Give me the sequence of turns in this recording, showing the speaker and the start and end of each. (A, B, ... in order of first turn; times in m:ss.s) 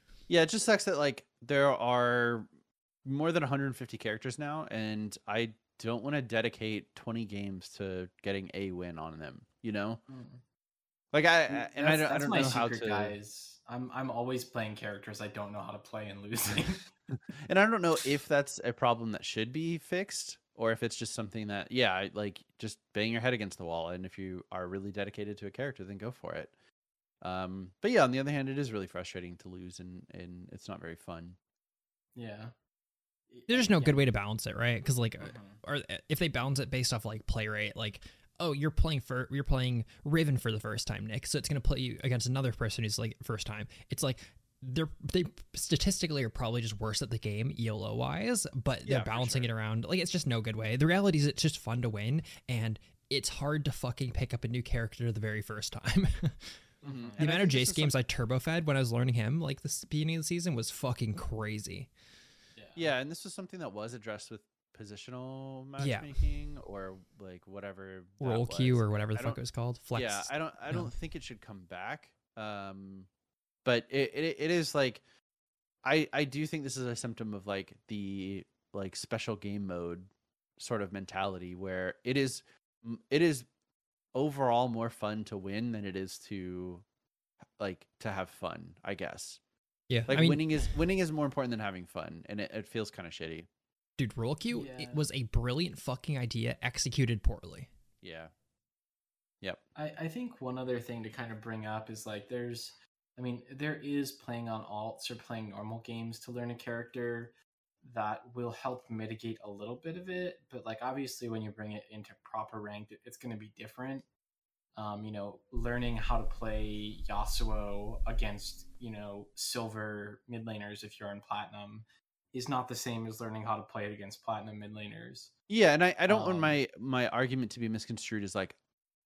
0:00.3-0:02.5 A
0:03.0-0:10.0 A
0:10.1-0:10.4 B
0:11.1-0:13.1 A
0:11.5-0:16.9 B
0:17.4-0:26.5 A
0:27.2-0:31.4 A
0:32.2-0:32.5 B
0:33.3-0:34.0 B
0:33.5-0:56.6 C
0:35.2-0:35.6 B
0:48.8-0:49.5 A
0:56.8-0:57.2 B
0:56.8-0:58.0 A
0:57.2-1:01.9 C
1:02.6-1:02.9 B
1:02.8-1:09.4 A
1:05.8-1:06.1 C
1:08.2-1:10.9 C
1:09.9-1:13.1 A
1:13.6-1:15.0 A
1:15.8-1:23.5 A
1:24.1-1:26.8 A
1:27.6-1:29.4 A
1:29.9-1:30.5 C
1:30.1-1:33.5 A
1:34.0-1:37.7 C
1:34.5-1:35.0 B
1:38.0-1:38.3 A
1:39.8-1:54.1 B
1:54.8-2:05.3 B
2:05.5-2:08.6 A
2:06.1-2:06.6 B